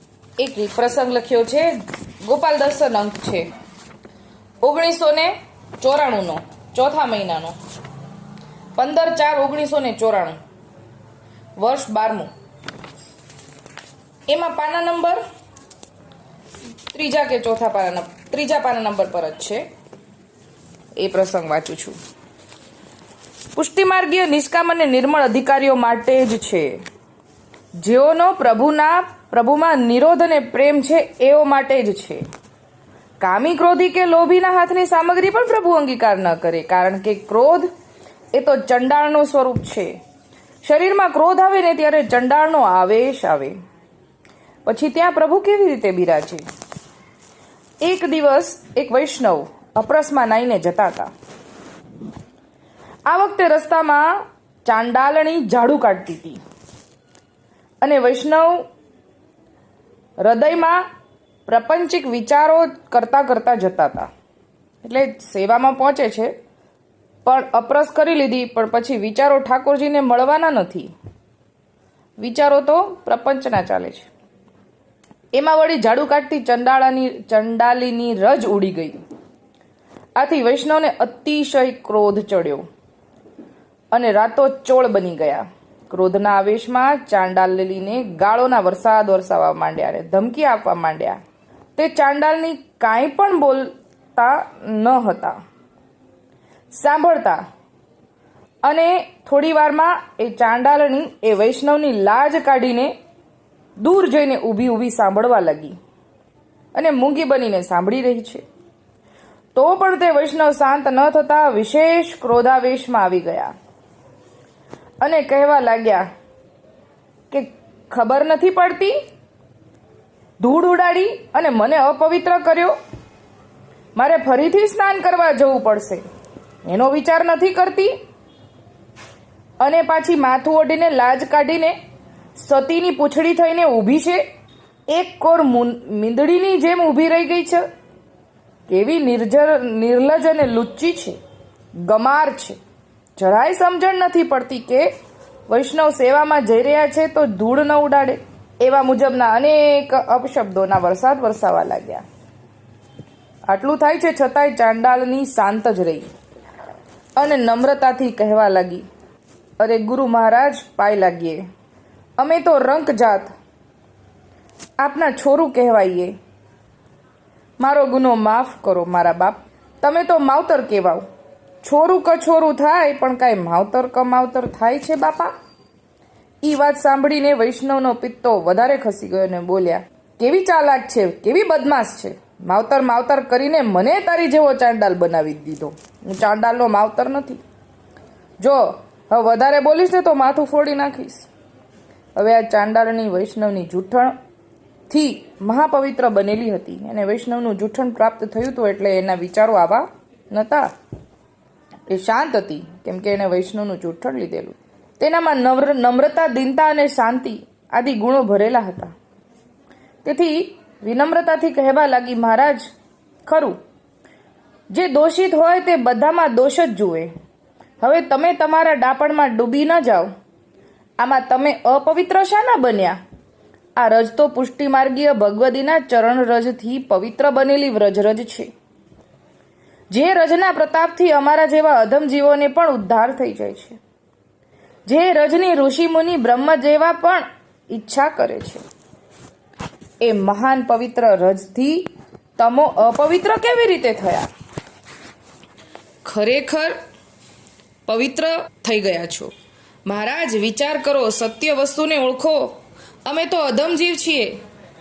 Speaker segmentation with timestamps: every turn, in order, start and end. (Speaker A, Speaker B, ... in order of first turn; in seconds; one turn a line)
Speaker A: 0.4-3.5
Speaker A: 4.6-7.5
Speaker A: 8.8-10.4
Speaker A: 11.6-12.3
Speaker A: 14.3-15.2
Speaker A: 16.9-19.6
Speaker A: 21.0-21.9
Speaker A: 23.5-26.8
Speaker A: 27.8-32.2
Speaker A: 33.2-37.7
Speaker A: 38.3-39.9
Speaker A: 40.6-43.5
Speaker A: 44.6-46.4
Speaker A: 47.8-51.1
Speaker A: 53.1-54.1
Speaker A: 54.6-56.4
Speaker A: 57.8-58.6
Speaker A: 60.2-60.8
Speaker A: 61.5-64.1
Speaker A: 64.8-66.3
Speaker A: 67.2-70.9
Speaker A: 72.2-74.1
Speaker A: 75.3-79.0
Speaker A: 80.2-82.6
Speaker A: 83.9-91.2
Speaker A: 91.8-95.3
Speaker A: 96.7-97.4
Speaker A: 98.6-102.9
Speaker A: 103.8-105.7
Speaker A: 106.7-108.4
Speaker A: 109.5-113.5
Speaker A: 115.0-116.0
Speaker A: 117.3-119.0
Speaker A: 120.4-122.8
Speaker A: 124.0-126.0
Speaker A: 126.6-127.9
Speaker A: 129.6-131.7
Speaker A: 132.3-134.2
Speaker A: 134.9-137.7
Speaker A: 138.7-141.2
Speaker A: 141.8-142.6
Speaker A: 143.2-144.9
Speaker A: 145.5-152.0
Speaker A: 153.5-156.0
Speaker A: 157.2-158.8
Speaker A: 159.6-161.4
Speaker A: 162.2-163.3
Speaker A: 164.8-166.1
Speaker A: 167.6-171.0
Speaker A: 171.6-175.3
Speaker A: 176.4-187.4
Speaker A: 188.4-191.3
Speaker A: 192.2-194.1
Speaker A: 194.9-200.7
Speaker A: 201.9-208.9
Speaker A: 210.0-212.7
Speaker A: 213.2-213.6
Speaker A: 214.7-217.1
Speaker A: 217.8-220.1
Speaker A: 221.0-223.0
Speaker A: 223.8-228.5
Speaker A: 229.9-233.8
Speaker A: 234.9-238.6
Speaker A: 240.0-244.3
Speaker A: 246.0-246.8
Speaker A: 247.8-249.3
Speaker A: 249.8-254.4